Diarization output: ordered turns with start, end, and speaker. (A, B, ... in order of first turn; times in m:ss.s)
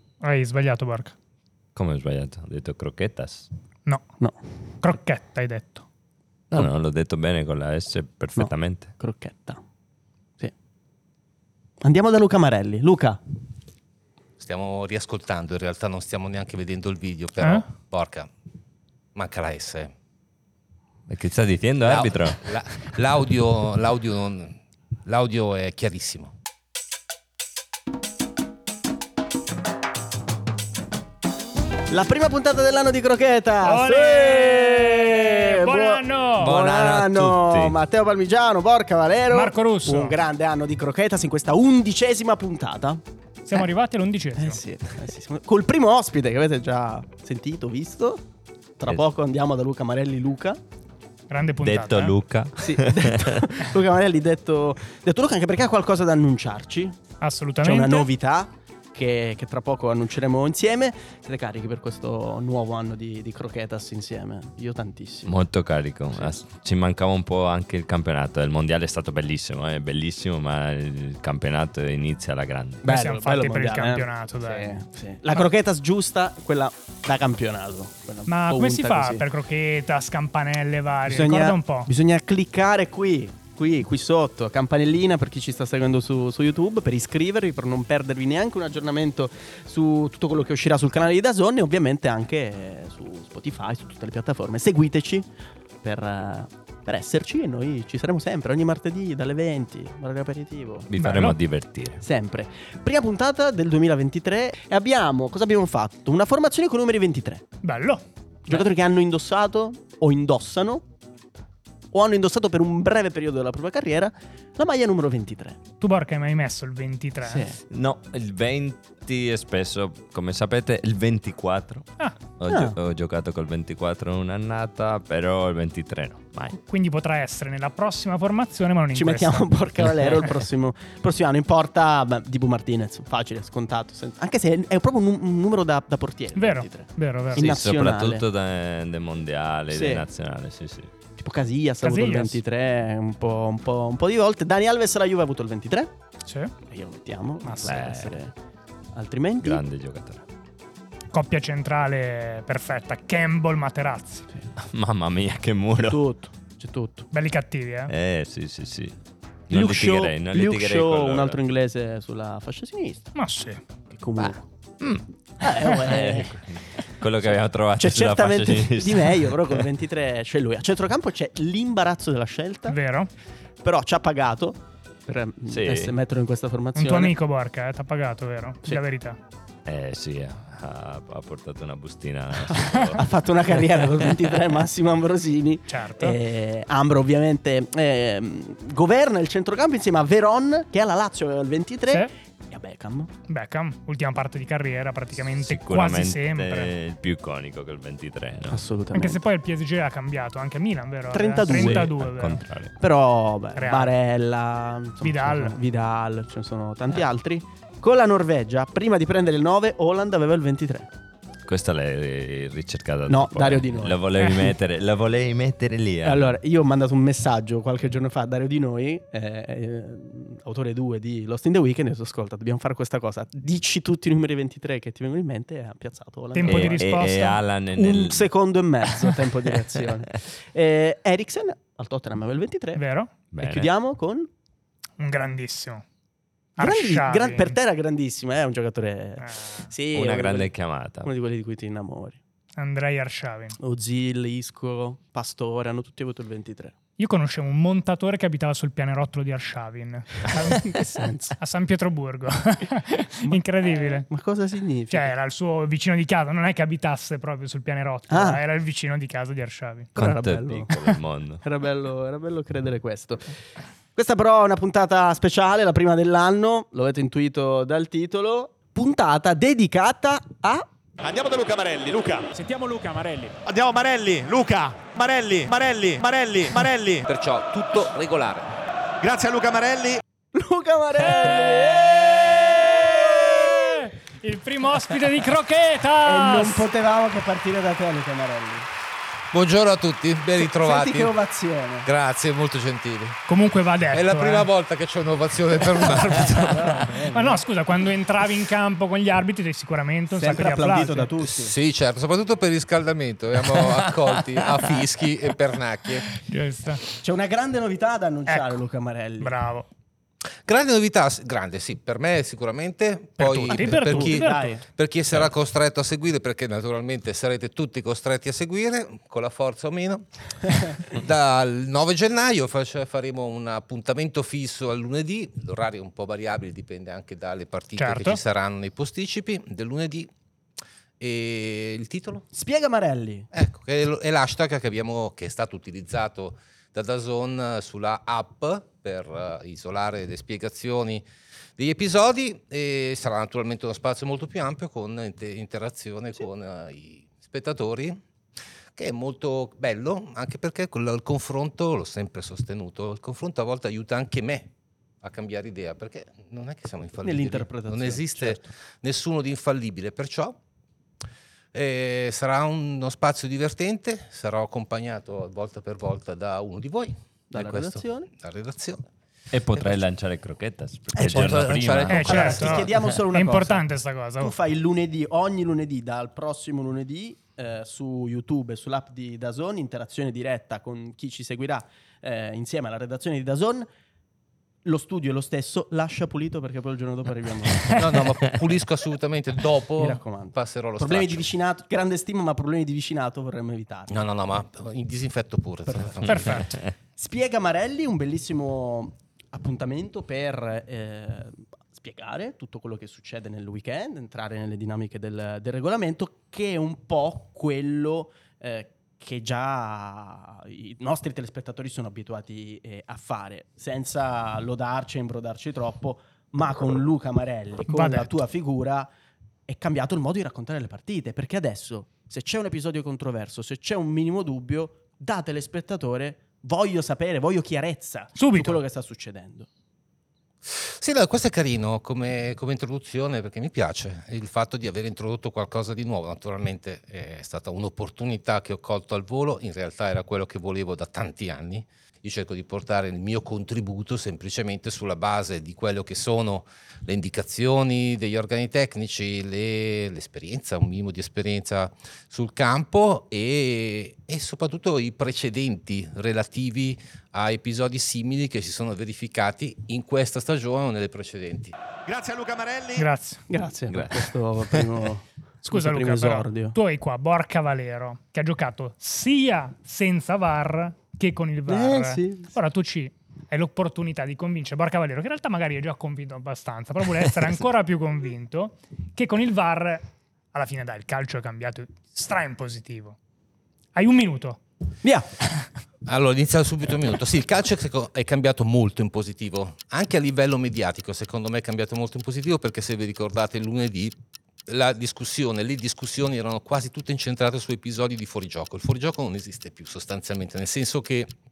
0:00.2-0:01.2 A
0:01.8-0:03.5 B
0:04.8-0:05.8 A
0:06.5-0:08.9 B
0:08.4-0:09.6 C
0:11.8-0:13.2 C
0:14.4-0:18.3 D
0:19.2-0:19.9 D
0:21.1-0:22.4 B
0:21.8-0:26.3 D
0:31.9-0:43.0 C
0:33.6-0:36.5 A
0:36.4-0:37.8 B
0:39.3-0:40.2 A
0:43.5-0:44.6 A
0:44.4-0:48.2 C
0:48.8-0:50.6 C
0:51.3-0:52.2 A
0:51.6-0:53.4 B
0:52.6-0:57.0 C
0:57.2-0:58.1 A
0:57.6-1:05.4 C
1:05.3-1:12.9 B
1:12.8-1:19.2 C
1:12.9-1:14.8 A
1:18.3-1:21.9 A
1:21.1-1:35.3 C
1:35.8-1:40.9 C
1:40.9-1:42.0 B
1:41.0-1:41.4 A
1:42.0-1:47.4 C
1:47.6-1:48.0 A
1:48.5-1:50.8 C
1:51.9-1:55.6 C
1:55.8-1:57.5 A
1:57.2-1:57.6 C
1:57.7-2:06.6 B
2:02.5-2:02.8 C
2:06.6-2:09.6 A
2:08.9-2:18.2 C
2:16.4-2:17.5 A
2:17.4-2:20.9 B
2:19.7-2:20.1 C
2:21.2-2:25.9 C
2:21.8-2:22.4 A
2:26.3-2:26.5 A
2:26.7-2:28.3 C
2:27.4-2:27.7 A
2:27.6-2:28.1 B
2:28.9-2:29.6 C
2:29.4-2:30.2 B
2:31.1-2:34.3 A
2:34.6-2:36.0 B
2:35.9-2:37.1 C
2:37.1-2:37.9 A
2:37.9-2:38.9 B
2:39.5-2:41.4 B
2:39.5-2:43.1 C
2:43.2-2:43.6 A
2:43.9-2:44.4 C
2:45.4-2:46.4 C
2:45.7-2:49.6 B
2:47.3-2:52.8 C
2:52.7-2:53.1 A
2:53.6-2:57.2 C
2:55.5-2:55.9 B
2:56.8-2:59.2 A
2:59.7-3:03.0 B
3:03.0-3:13.1 C
3:05.7-3:06.2 A
3:13.3-3:16.7 A
3:15.4-3:18.6 B
3:18.5-3:19.2 C
3:18.9-3:22.4 A
3:21.1-3:21.9 C
3:21.5-3:22.7 B
3:22.8-3:30.9 C
3:23.6-3:23.9 A
3:25.0-3:25.6 A
3:31.5-3:36.4 B
3:33.1-3:34.5 C
3:36.0-3:46.9 C
3:46.3-3:47.4 A
3:46.4-3:48.3 B
3:47.8-3:52.8 C
3:52.8-3:53.1 A
3:53.3-3:53.7 B
3:53.4-3:54.3 C
3:55.0-3:55.8 A
3:56.6-3:57.6 A
3:56.6-4:00.5 C
3:59.2-3:59.7 A
3:59.9-4:01.1 B
4:01.0-4:02.2 C
4:02.6-4:03.6 A
4:03.6-4:06.8 C
4:07.0-4:10.8 A
4:10.3-4:11.4 C
4:11.4-4:14.1 A
4:13.2-4:15.1 C
4:14.9-4:19.9 A
4:18.1-4:18.4 C
4:20.0-4:20.9 C
4:20.0-4:21.4 B
4:21.4-4:23.3 C
4:24.0-4:30.7 C
4:31.0-4:32.3 E
4:33.4-4:37.1 E
4:37.1-4:38.6 D
4:39.0-4:40.0 E
4:40.3-4:43.9 C
4:41.0-4:46.7 A
4:46.0-4:48.7 C
4:49.3-4:51.1 D
4:50.4-4:51.9 C
4:51.8-4:53.2 D
4:53.3-4:54.5 A
4:53.9-4:57.0 D
4:56.0-4:57.4 C
4:57.1-5:01.1 A
5:00.1-5:01.5 C
5:01.2-5:06.2 D
5:06.3-5:06.8 A
5:07.0-5:09.4 C
5:08.3-5:08.6 A
5:09.2-5:09.7 A
5:10.5-5:30.1 D
5:13.2-5:14.5 A
5:13.5-5:14.6 C
5:27.8-5:28.2 A
5:31.0-5:32.2 D
5:32.3-5:33.3 C
5:33.3-5:41.0 D
5:41.6-5:48.0 D
5:48.8-6:00.4 D
5:57.0-5:58.5 C
6:01.5-6:08.8 D
6:07.3-6:08.1 C
6:09.3-6:12.2 B
6:11.0-6:12.7 D
6:11.0-6:11.5 C
6:11.9-6:14.3 A
6:12.0-6:13.7 C
6:14.2-6:23.7 C
6:24.6-6:28.0 C
6:27.7-6:31.3 D
6:29.8-6:34.0 C
6:33.9-6:36.5 D
6:35.7-6:36.4 C
6:36.1-6:36.5 A
6:37.0-6:58.9 C
6:57.7-6:58.1 A
6:59.5-7:09.5 C
7:08.2-7:08.6 A
7:10.5-7:41.6 D
7:41.9-7:42.9 E
7:42.8-7:43.2 A
7:43.3-7:46.6 C
7:43.7-7:44.5 B
7:45.4-8:03.0 A
7:51.5-7:52.3 C
8:03.8-8:04.4 A
8:05.9-8:14.0 D
8:14.5-8:21.1 D